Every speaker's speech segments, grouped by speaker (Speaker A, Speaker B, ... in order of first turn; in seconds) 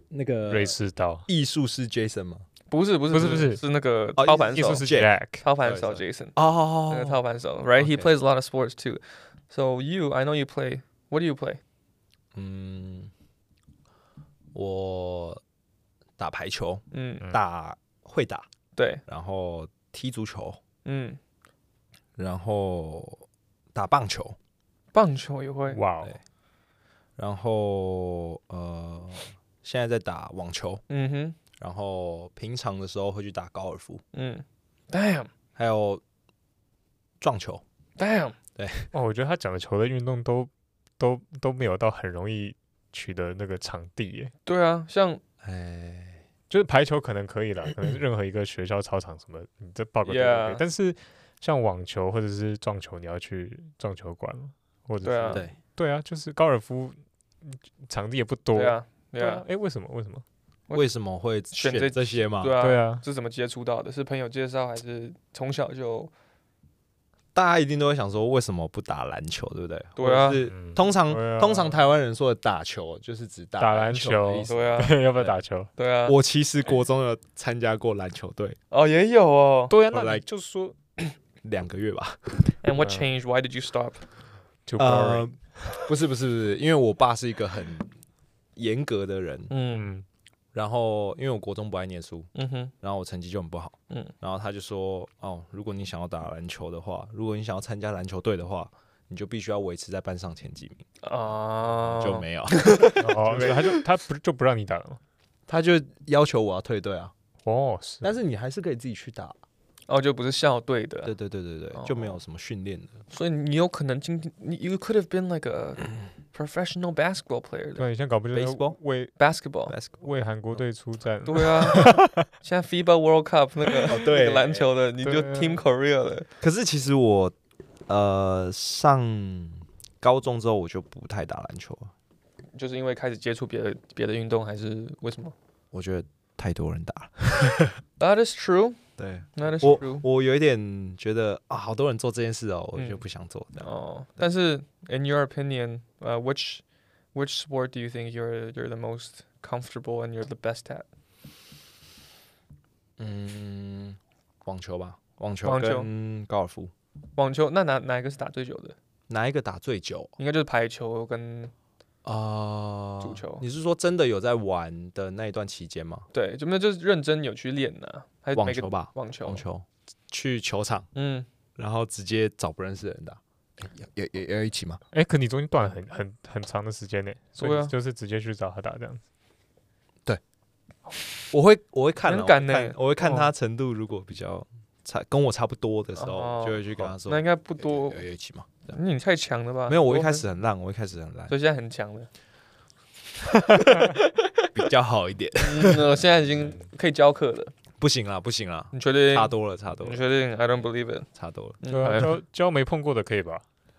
Speaker A: 0.1-0.8, 1.3-2.5, 4.2-7.2, 12.3-13.1, 14.5-15.4, 16.2-18.5, 19.1-20.6, 22.2-24.4, 27.2-30.8, 31.6-34.0, 35.6-36.0, 37.2-37.6, 38.6-38.9, 45.4-46.2, 60.7-62.5, 67.3-75.3, 76.1-78.6, 79.9-80.2, 81.4-82.4, 84.8-87.9, 88.6-89.5, 90.5-92.3, 92.8-100.8, 101.8-103.7, 105.5-107.1, 108.0-109.4, 111.0-113.0, 118.3-118.8, 119.7-120.6, 123.9-124.7, 126.4-127.3, 127.9-131.9, 135.7-137.8, 139.0-143.7, 153.0-156.7, 159.1-160.1, 162.0-166.1, 168.3-170.9, 171.6-174.8, 181.3-188.8, 189.7-191.3, 194.6-195.9, 197.8-200.0, 201.2-201.6
Speaker B: 0.5-1.3, 3.1-3.6, 4.5-5.5, 25.7-26.1, 38.9-44.3, 46.5-60.2, 62.6-63.0, 70.4-71.8, 73.6-75.7, 79.7-80.8, 82.8-83.1, 84.7-85.3, 89.7-90.1, 103.0-105.0, 107.5-108.1, 117.8-119.2, 120.0-122.2, 125.0-125.6, 174.9-179.0, 201.7-203.4
Speaker C: 2.7-4.9, 5.4-11.6, 16.9-17.3, 18.8-19.0, 20.9-21.2, 24.9-25.8, 30.9-31.4, 34.1-35.3, 38.0-38.4, 44.5-45.2, 50.0-50.6, 55.0-55.5, 58.5-59.4, 61.5-66.1, 70.0-70.4, 74.5-75.0, 75.8-76.2, 78.7-79.8, 82.6-84.0, 89.5-89.9, 92.3-92.7, 101.0-103.7, 109.9-111.1, 111.7-112.2, 113.1-117.8, 119.2-119.8, 121.2-126.3, 132.6-135.3, 138.0-138.8, 139.3-140.1, 142.8-143.0, 143.6-146.6, 147.1-150.8, 155.4-155.9, 157.2-158.8, 160.2-161.5, 163.0-163.4, 166.1-169.4, 170.9-171.3, 177.4-177.7, 182.1-182.8, 186.0-188.0, 188.7-190.3, 191.3-192.1, 193.6-194.5, 195.4-197.5, 198.7-201.1, 201.6-202.2